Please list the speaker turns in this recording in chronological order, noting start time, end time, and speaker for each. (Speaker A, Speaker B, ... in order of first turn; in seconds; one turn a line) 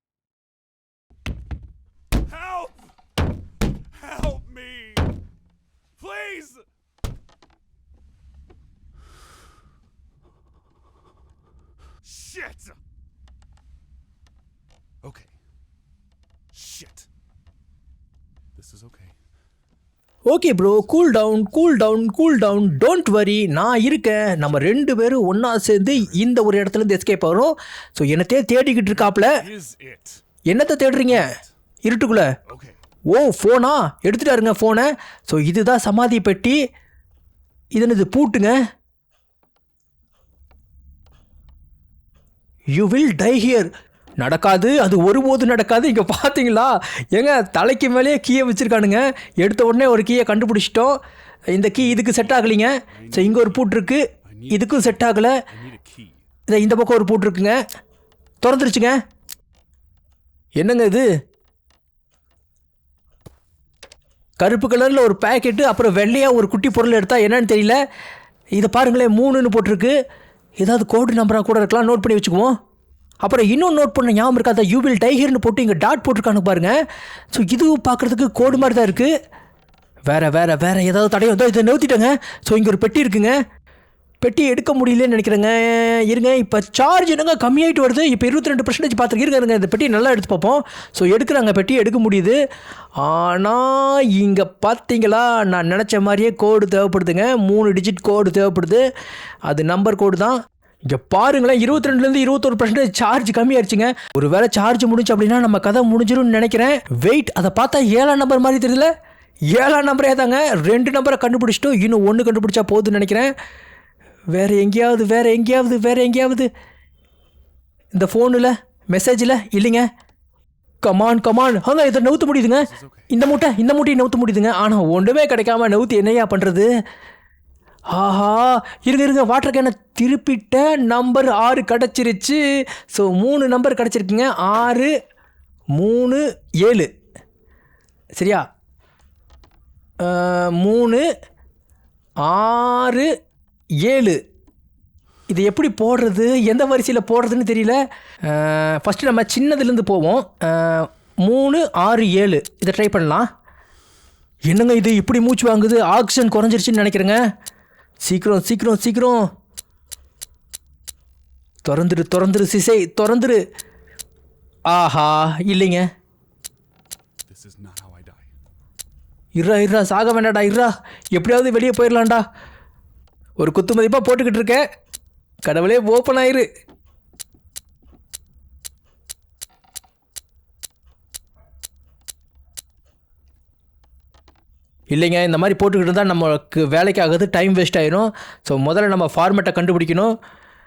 Speaker A: 2.3-2.9
Speaker A: 3.9-5.1
Speaker A: 6.0-6.7
Speaker A: 12.0-12.8
Speaker A: 15.0-15.3
Speaker A: 16.5-17.1
Speaker A: 18.6-19.1
Speaker B: 20.3-29.4
Speaker A: 29.2-30.2
Speaker B: 30.5-32.3
Speaker A: 31.1-31.5
Speaker A: 32.5-32.8
Speaker B: 33.1-36.6
Speaker B: 37.7-38.6
Speaker B: 42.7-51.0
Speaker B: 51.5-55.4
Speaker A: 52.9-53.7
Speaker A: 54.2-56.2
Speaker B: 56.5-57.6
Speaker B: 58.4-59.0
Speaker B: 60.6-61.0
Speaker B: 64.4-67.8
Speaker B: 68.5-69.9
Speaker B: 70.6-72.5
Speaker B: 73.2-76.7
Speaker B: 77.3-79.1
Speaker A: 78.4-79.0
Speaker B: 80.1-83.3
Speaker B: 84.2-92.3
Speaker B: 93.0-98.8
Speaker B: 99.5-100.3
Speaker B: 100.9-108.9
Speaker B: 109.5-113.3
Speaker B: 114.3-116.5
Speaker B: 117.9-119.8
Speaker B: 120.8-126.7
Speaker A: 122.6-123.1
Speaker B: 127.9-134.9
Speaker B: 135.8-136.9
Speaker B: 138.2-138.4
Speaker B: 140.0-141.0
Speaker B: 142.2-143.1
Speaker B: 143.8-144.2
Speaker B: 145.3-153.2
Speaker B: 154.5-157.2
Speaker B: 158.0-159.2
Speaker B: 161.6-163.4
Speaker B: 164.7-165.8
Speaker A: 167.3-168.3
Speaker B: 169.4-172.2
Speaker B: 173.4-174.6
Speaker B: 175.4-176.4
Speaker B: 184.9-190.1